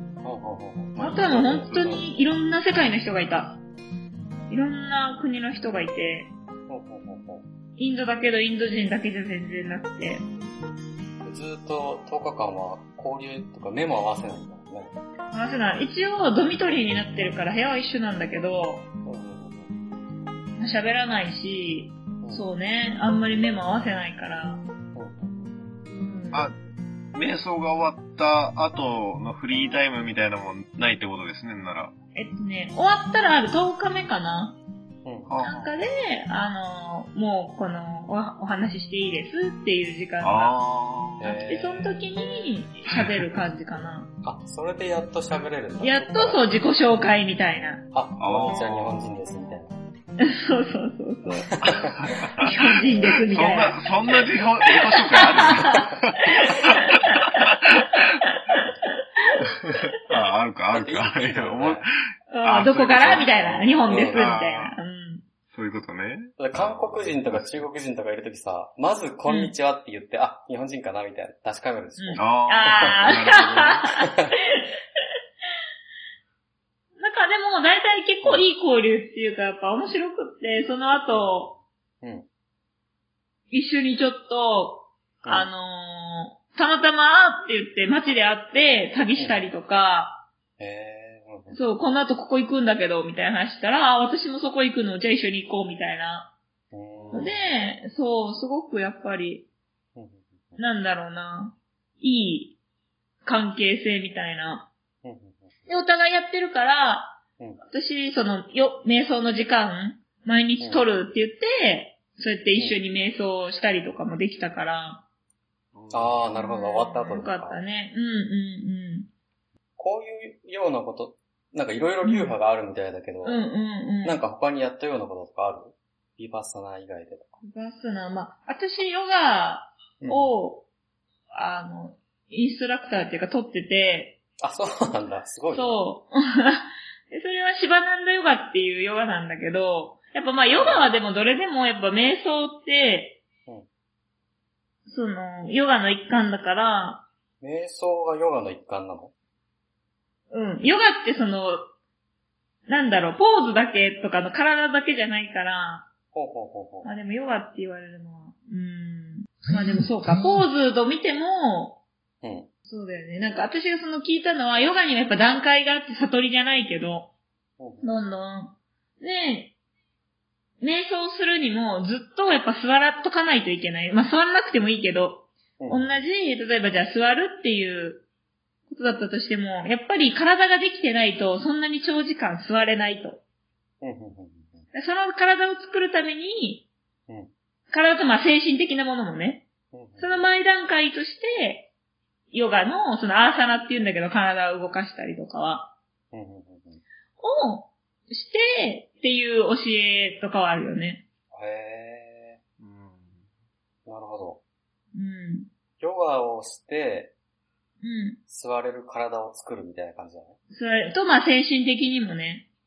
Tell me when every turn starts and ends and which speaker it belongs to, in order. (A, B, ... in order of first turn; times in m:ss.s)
0:00.2-0:02.1 A
0:01.0-0:03.6 B
0:04.5-0:06.3 B
0:06.7-0:07.4 A
0:07.8-0:10.3 B
0:11.2-0:14.9 A
0:15.3-0:18.8 B
0:19.0-0:19.8 A
0:20.6-0:24.7 B
0:22.2-0:22.5 A
0:24.9-0:25.7 A
0:25.9-0:26.5 B
0:27.1-0:31.9 C
0:32.1-0:34.6 B
0:35.0-0:35.4 A
0:35.3-0:35.7 C
0:35.4-0:40.6 B
0:40.2-0:41.3 C
0:41.2-0:42.1 A
0:41.3-0:44.1 B
0:44.2-0:46.4 A
0:45.8-0:47.8 B
0:47.9-0:49.8 A
0:48.2-0:49.2 C
0:50.2-0:51.5 B
0:51.3-0:51.9 A
0:51.7-0:52.5 C
0:52.4-0:53.9 B
0:53.3-0:57.9 C
0:54.7-0:56.7 B
1:00.1-1:04.8 C
1:00.7-1:01.8 A
1:02.3-1:05.2 B
1:03.9-1:04.4 A
1:05.5-1:07.7 C
1:06.4-1:13.0 A
1:09.3-1:09.5 B
1:12.0-1:14.6 B
1:12.2-1:13.8 C
1:17.0-1:21.5 B
1:21.1-1:22.3 A
1:23.5-1:30.2 B
1:25.2-1:25.5 A
1:29.2-1:29.5 A
1:30.6-1:31.6 A
1:31.5-1:36.3 B
1:36.7-1:37.5 A
1:36.9-1:37.4 C
1:37.1-1:39.5 B
1:39.9-1:40.6 A
1:40.6-1:42.6 B
1:43.2-1:44.7 B
1:45.0-1:45.5 A
1:45.7-1:55.0 B
1:50.6-1:50.9 A
1:52.5-1:52.8 A
1:55.7-1:56.2 C
1:55.9-1:57.6 A
1:56.3-1:59.1 B
1:59.8-2:03.4 A
2:02.0-2:02.4 B
2:03.2-2:04.2 B
2:04.0-2:07.4 A
2:07.4-2:10.7 B
2:10.0-2:10.3 A
2:11.3-2:14.2 B
2:14.4-2:15.8 A
2:15.5-2:23.2 B
2:20.5-2:20.9 A
2:24.8-2:27.1 B
2:27.4-2:29.1 A
2:30.3-2:31.7 B
2:32.7-2:35.9 B
2:36.1-2:36.9 A
2:36.8-2:41.8 B
2:42.2-2:42.5 A
2:42.7-2:47.1 B
2:47.6-2:47.9 A
2:47.8-2:49.5 B
2:50.6-2:58.0 B
2:55.6-2:56.0 A
2:58.7-3:03.2 B
3:03.8-3:04.7 A
3:04.7-3:06.7 B
3:07.7-3:09.5 B
3:09.7-3:10.3 A
3:10.0-3:11.7 B
3:12.3-3:15.7 B
3:16.1-3:16.8 A
3:17.2-3:21.0 B
3:21.3-3:22.4 A
3:22.6-3:23.2 C
3:23.8-3:24.4 A
3:24.9-3:25.5 B
3:25.8-3:27.2 A
3:27.8-3:28.2 B
3:28.3-3:30.4 A
3:30.5-3:32.5 B